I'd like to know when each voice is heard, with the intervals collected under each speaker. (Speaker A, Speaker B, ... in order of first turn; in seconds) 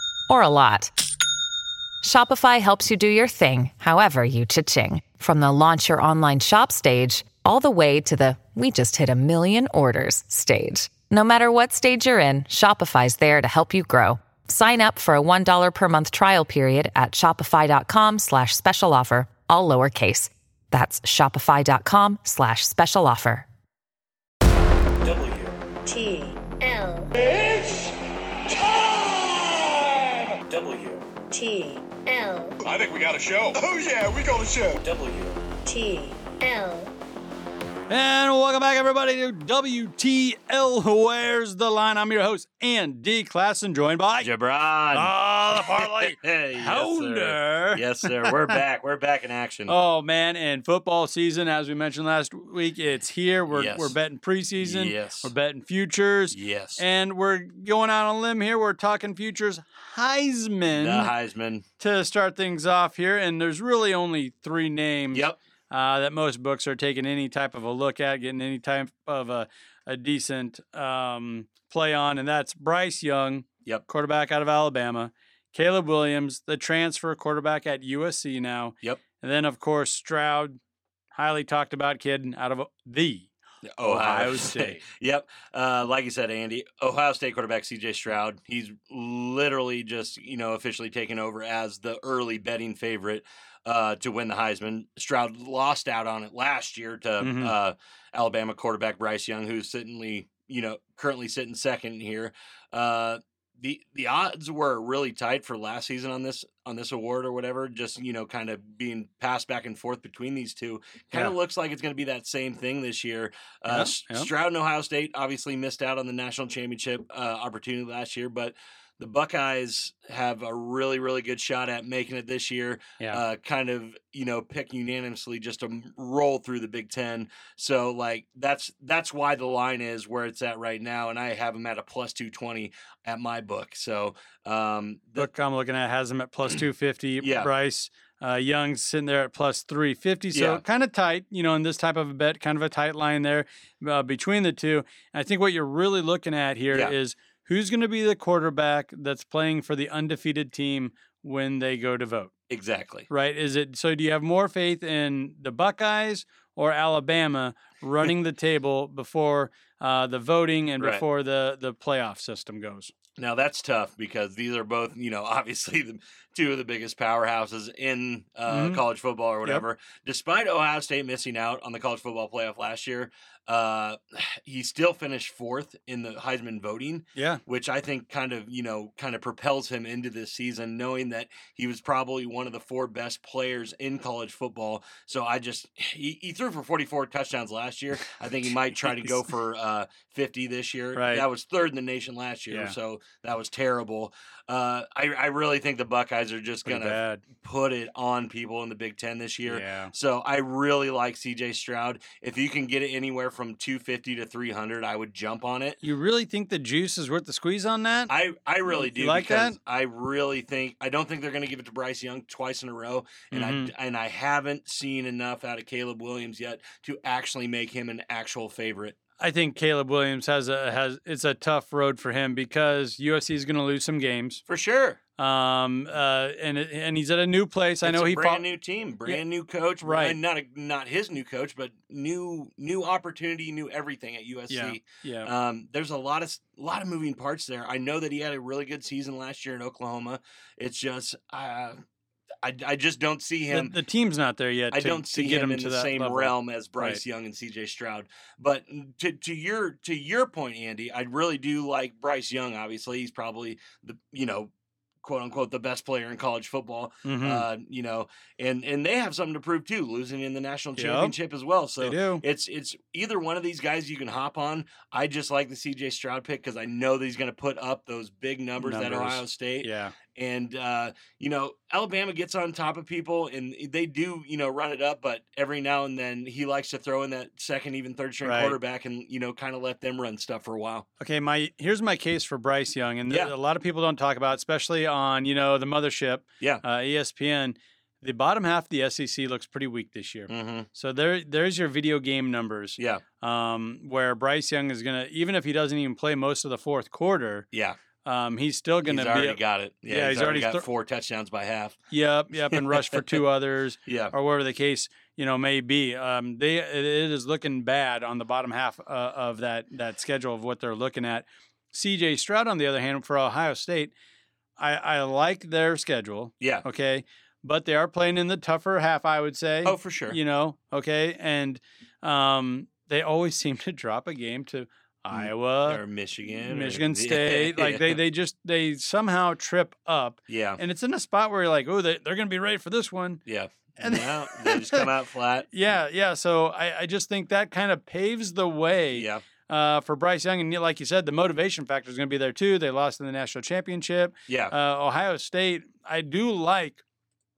Speaker A: 0.3-0.9, 2.0-23.5
Speaker B: 25.1-27.3, 30.4-32.6, 34.8-36.9
Speaker C: 27.3-27.9, 30.6-30.8, 32.7-35.1
Speaker D: 37.9-44.3, 44.9-48.3, 49.7-61.1, 61.8-80.6, 81.2-83.3, 83.8-84.8, 97.2-97.5, 113.7-114.3, 135.2-152.3, 153.1-162.9, 168.5-168.8, 177.2-177.4, 190.9-191.2, 192.5-192.8, 196.7-197.2, 199.5-199.9, 205.8-208.1, 208.7-209.6, 213.3-213.7, 219.2-224.4, 225.2-228.4, 229.8-230.2, 234.5-235.3, 243.5-247.0, 257.0-257.4, 260.8-261.1, 261.8-262.2, 268.6-269.9, 278.2-278.6, 281.0-297.4, 298.0-300.6, 301.9-313.9, 314.6-325.8, 326.4-333.2, 333.8-334.9, 335.5-346.8
Speaker E: 44.2-49.7, 53.5-53.9, 54.6-55.3, 56.3-56.8, 60.7-61.6, 65.1-65.4, 83.7-135.3, 137.2-137.5, 140.3-140.6, 152.5-153.1, 160.8-161.0, 163.2-205.8, 208.1-219.0, 224.5-225.0, 227.8-241.8, 242.4-243.7, 244.7-254.5, 255.0-280.9, 283.1-283.3, 290.3-290.7, 292.8-293.0, 297.5-297.8, 298.8-301.8, 302.5-303.0, 303.9-304.1, 316.4-316.6, 319.6-320.2, 325.1-328.0, 330.3-330.6, 333.2-335.5, 338.9-339.2, 344.3-344.5